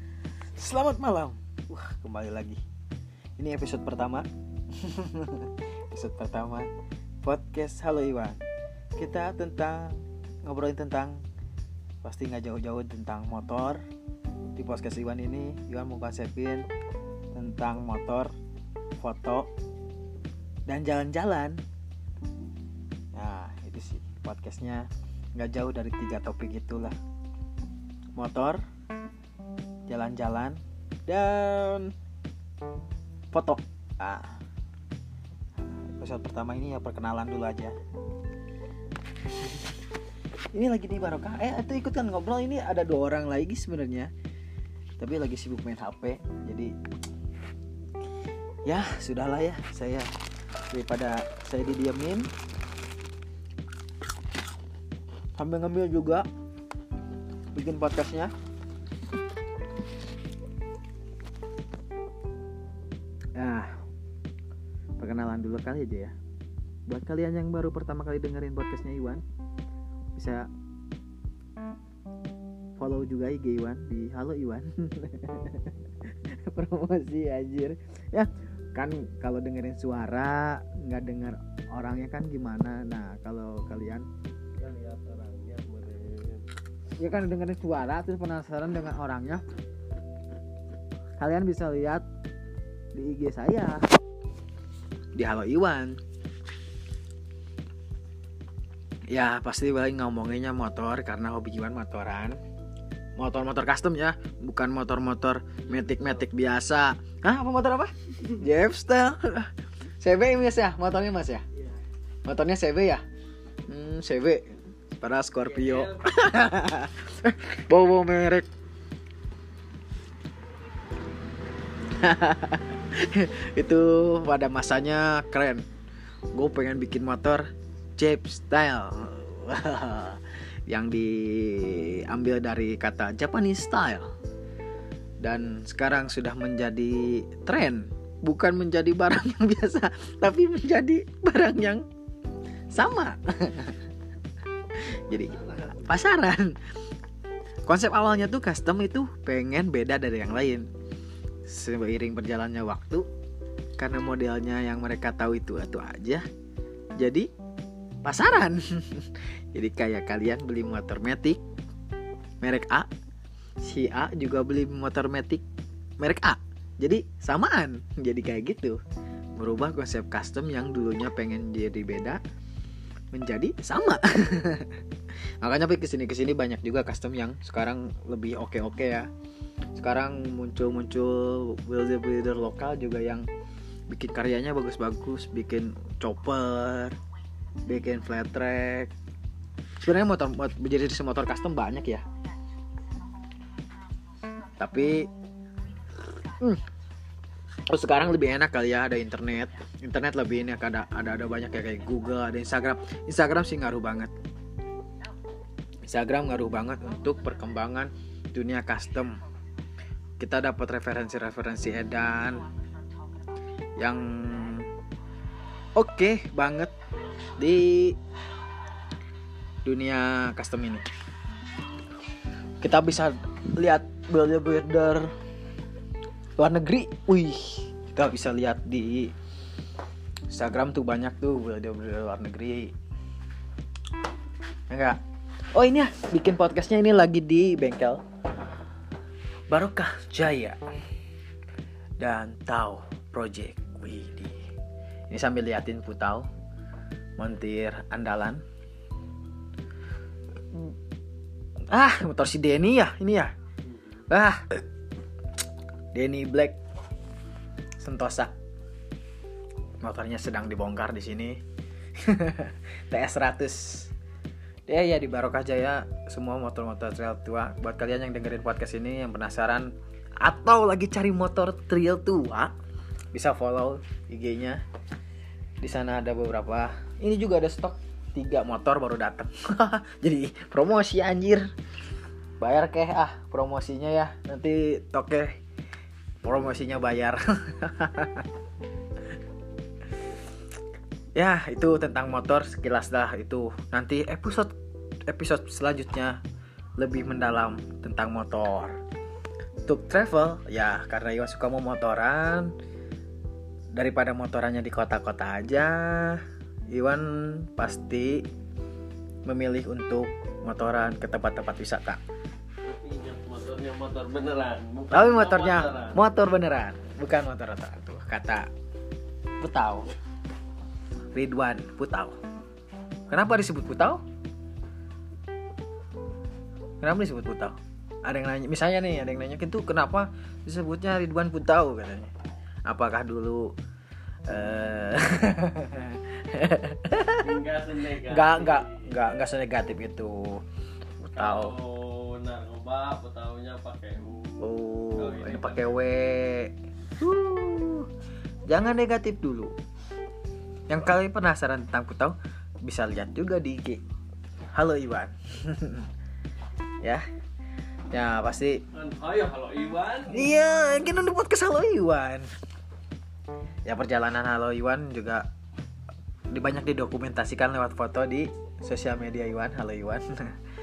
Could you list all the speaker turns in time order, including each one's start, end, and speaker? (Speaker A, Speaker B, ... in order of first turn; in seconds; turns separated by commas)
Speaker A: 0.5-2.6, Speaker A: 3.4-6.7, Speaker A: 7.2-8.4, Speaker A: 8.9-11.2, Speaker A: 12.0-13.8, Speaker A: 14.5-16.7, Speaker A: 17.3-18.3, Speaker A: 19.0-19.5, Speaker A: 20.7-21.6, Speaker A: 23.1-26.9, Speaker A: 28.1-28.6, Speaker A: 29.9-31.9, Speaker A: 33.3-34.4, Speaker A: 35.6-37.7, Speaker A: 39.3-39.7, Speaker A: 40.5-44.1, Speaker A: 45.0-46.7, Speaker A: 48.6-50.1, Speaker A: 50.7-52.3, Speaker A: 55.4-56.3, Speaker A: 57.5-58.3, Speaker A: 63.3-63.8, Speaker A: 65.0-66.1, Speaker A: 66.9-69.2, Speaker A: 70.1-70.5, Speaker A: 72.8-84.1, Speaker B: 84.6-86.4, Speaker A: 87.0-89.4, Speaker A: 91.2-92.0, Speaker A: 92.9-93.8, Speaker A: 95.1-96.0, Speaker A: 99.1-102.4, Speaker A: 103.2-111.4, Speaker A: 112.2-113.0, Speaker A: 113.7-118.5, Speaker B: 115.6-116.1, Speaker A: 121.9-125.6, Speaker A: 126.3-134.1, Speaker A: 135.2-141.8, Speaker A: 142.7-143.8, Speaker A: 144.7-146.6, Speaker A: 147.6-150.7, Speaker A: 151.4-153.1, Speaker A: 153.8-156.2, Speaker A: 157.0-157.3, Speaker A: 158.0-161.4, Speaker A: 162.4-162.9, Speaker A: 163.6-165.4, Speaker A: 166.0-168.8, Speaker A: 169.3-172.2, Speaker A: 173.1-174.8, Speaker A: 175.4-179.1, Speaker A: 179.7-183.3, Speaker A: 183.9-187.0, Speaker A: 187.7-188.9, Speaker A: 189.8-192.0, Speaker A: 194.6-195.1, Speaker A: 196.2-196.6, Speaker A: 197.7-204.1, Speaker A: 205.8-209.2, Speaker A: 210.2-212.5, Speaker A: 213.8-214.7, Speaker A: 215.8-216.7, Speaker A: 217.4-218.0, Speaker A: 219.6-220.8, Speaker A: 222.6-225.1, Speaker A: 226.4-229.1, Speaker A: 230.3-232.7, Speaker A: 234.7-235.0, Speaker A: 235.5-238.0, Speaker A: 239.5-240.6, Speaker A: 242.0-244.4, Speaker A: 245.1-246.3, Speaker A: 247.2-248.4, Speaker A: 251.7-253.3, Speaker B: 253.7-254.0, Speaker A: 254.1-254.6, Speaker A: 255.9-256.6, Speaker A: 257.8-258.3, Speaker A: 259.8-261.4, Speaker A: 262.0-263.9, Speaker A: 264.7-272.5, Speaker A: 273.1-274.6, Speaker A: 275.6-281.5, Speaker A: 282.4-285.4, Speaker A: 286.2-288.3, Speaker A: 291.1-294.5, Speaker A: 295.1-296.2, Speaker A: 296.8-298.8, Speaker A: 299.7-302.5, Speaker A: 303.7-308.2, Speaker A: 309.2-312.0, Speaker B: 312.6-316.0, Speaker A: 314.9-318.5, Speaker A: 319.4-319.9, Speaker A: 321.1-322.1, Speaker A: 323.1-324.0, Speaker A: 326.8-332.1, Speaker A: 332.6-333.5, Speaker A: 334.3-337.3, Speaker B: 337.1-339.1, Speaker A: 338.0-340.4, Speaker A: 341.0-341.5, Speaker B: 341.1-345.8, Speaker A: 344.4-347.9, Speaker A: 348.5-349.5, Speaker A: 350.7-353.8, Speaker A: 354.5-355.9, Speaker A: 357.9-358.6, Speaker B: 358.7-360.3, Speaker A: 360.1-362.3, Speaker A: 363.6-365.2, Speaker A: 366.3-370.3